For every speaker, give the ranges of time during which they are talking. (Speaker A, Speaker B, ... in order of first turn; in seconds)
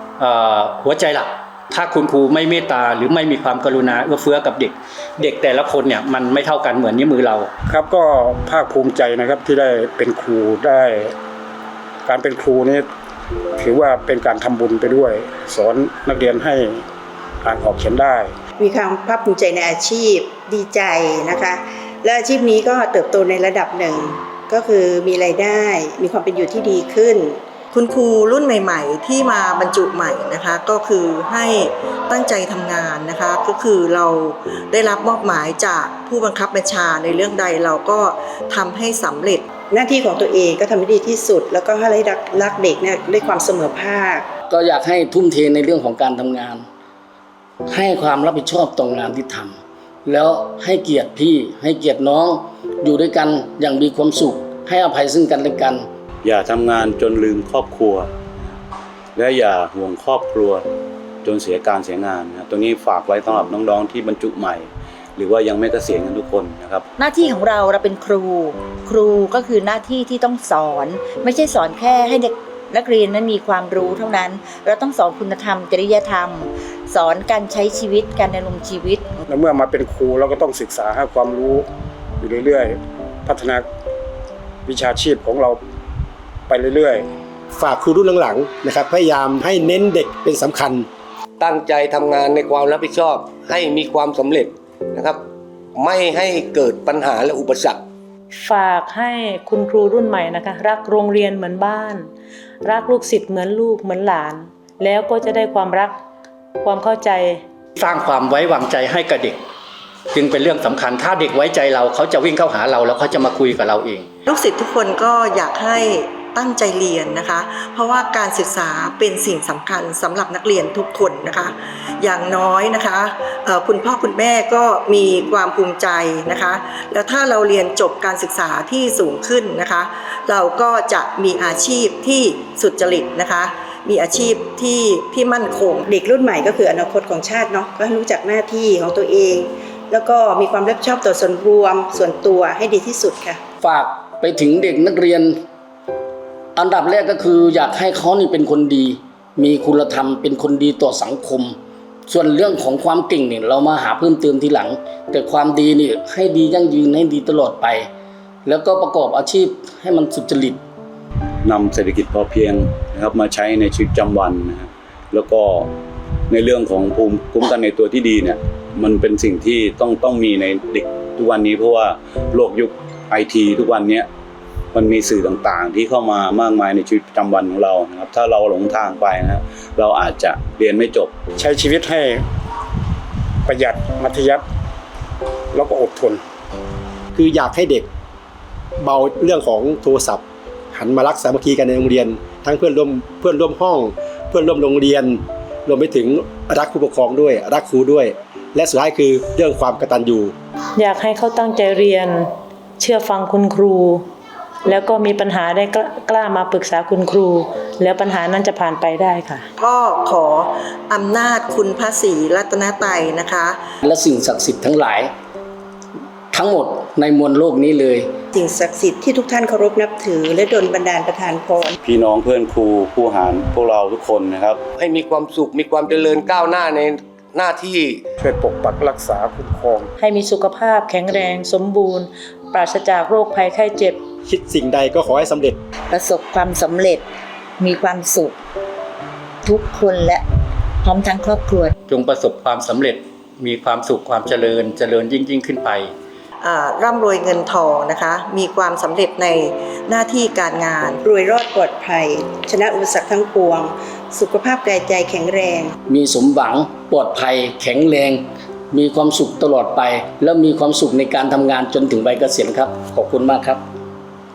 Speaker A: 0.2-7.5, 107.8-109.4, 110.1-114.1, 241.9-245.9
Speaker B: 7.7-11.1, 12.1-12.8, 13.6-16.8, 17.4-18.3, 79.3-81.7, 82.2-83.7, 84.7-85.6, 86.5-87.1, 181.4-182.2, 183.5-184.4, 185.5-186.2, 228.2-229.9
Speaker C: 18.6-27.4, 39.7-44.3, 135.9-143.4, 218.3-221.7, 251.0-255.7
Speaker D: 27.7-39.5, 114.3-135.8, 209.6-213.6, 246.4-251.0
Speaker E: 44.5-46.7, 47.7-55.9, 143.6-145.4, 146.6-157.9, 158.4-160.6, 213.8-215.1, 216.3-218.2, 255.9-263.6
Speaker F: 56.2-58.5, 59.2-60.7, 61.2-66.8, 161.4-165.7, 166.3-174.1, 174.7-181.1, 221.8-224.6
Speaker G: 67.0-79.1, 235.9-237.0, 237.6-238.3, 239.4-240.2, 240.8-241.7
Speaker H: 87.5-90.9, 187.2-187.9, 188.8-200.3, 234.3-235.6
Speaker I: 91.4-95.2, 95.8-97.8, 224.8-228.0
Speaker J: 98.3-102.1, 102.6-106.0, 106.6-107.4, 200.8-204.0, 204.7-209.5, 230.0-234.0